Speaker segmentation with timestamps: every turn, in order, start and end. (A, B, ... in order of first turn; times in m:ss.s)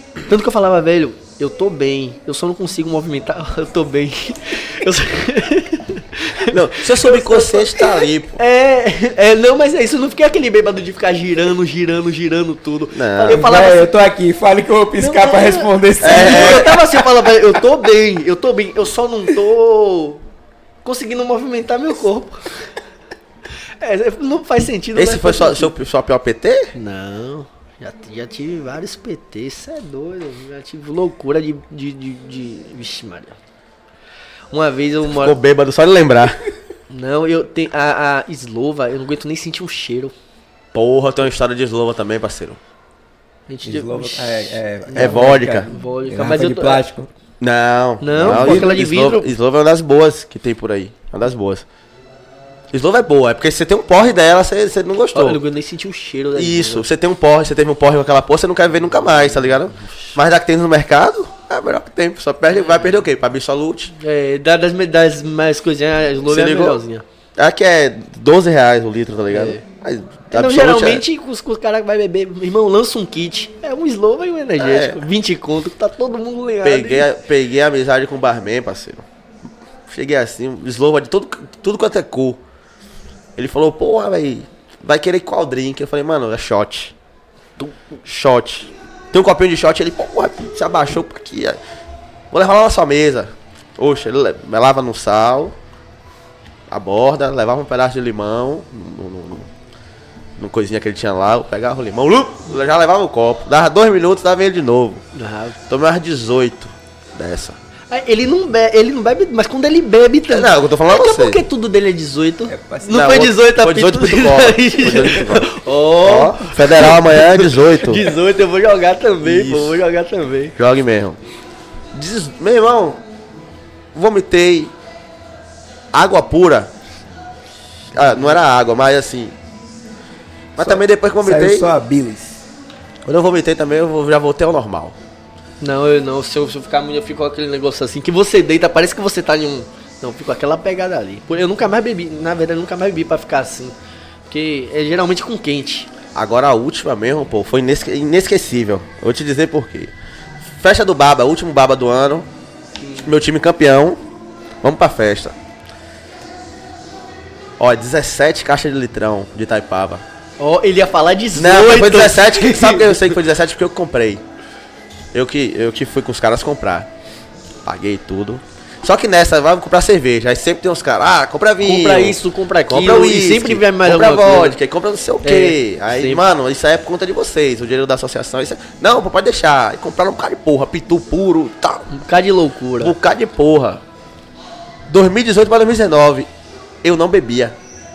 0:00.3-0:13.9 A
0:06.5-0:08.4 B
0:12.9-0:13.4 B
0:13.3-0:16.8 C
0:15.0-0:20.2 A
0:16.0-0:16.8 B
0:20.8-0:22.7 A
0:23.8-0:25.7 A
0:24.9-0:26.7 B
0:26.7-0:33.4 A
0:34.5-0:35.4 A
0:35.1-0:36.4 B
0:36.9-0:40.1 A
0:40.7-0:42.6 B
0:43.5-0:46.8 A
0:43.6-0:47.1 C
0:44.9-0:45.7 B
0:47.4-0:51.6 B
0:48.0-0:49.3 A
0:48.2-0:48.8 C
0:52.7-0:55.4 B
0:55.1-0:56.9 A
0:56.4-1:03.9 B
0:59.4-1:00.1 A
1:02.5-1:03.0 A
1:03.9-1:07.0 A
1:06.2-1:06.8 B
1:07.4-1:11.0 B
1:09.3-1:09.6 A
1:10.3-1:17.0 A
1:14.6-1:15.0 B
1:16.6-1:19.0 B
1:19.9-1:22.4 B
1:23.4-1:26.9 B
1:28.0-1:31.6 B
1:32.3-1:35.5 B
1:36.7-1:39.5 B
1:40.4-1:45.0 B
1:45.1-1:45.6 A
1:45.7-1:47.6 B
1:47.9-2:00.5 A
1:50.3-1:51.4 B
1:52.5-1:53.0 C
1:52.9-1:55.5 B
1:56.0-1:58.1 B
1:59.2-1:59.8 B
2:00.6-2:01.2 B
2:01.9-2:03.0 B
2:03.9-2:04.7 B
2:05.9-2:06.7 B
2:07.9-2:09.3 B
2:08.0-2:08.3 A
2:10.6-2:11.7 B
2:10.6-2:12.4 C
2:13.0-2:15.0 B
2:15.6-2:23.7 A
2:24.3-2:25.9 A
2:26.1-2:29.9 B
2:30.6-2:32.3 B
2:32.8-2:33.1 A
2:33.0-2:34.0 B
2:34.6-2:35.3 B
2:37.6-2:40.0 B
2:40.4-2:43.1 A
2:41.3-2:44.2 B
2:45.1-2:46.9 B
2:47.6-3:01.9 B
2:51.6-2:54.6 A
2:55.2-2:56.2 A
3:01.9-3:02.9 A
3:02.8-3:03.8 B
3:04.9-3:06.3 B
3:06.8-3:07.5 B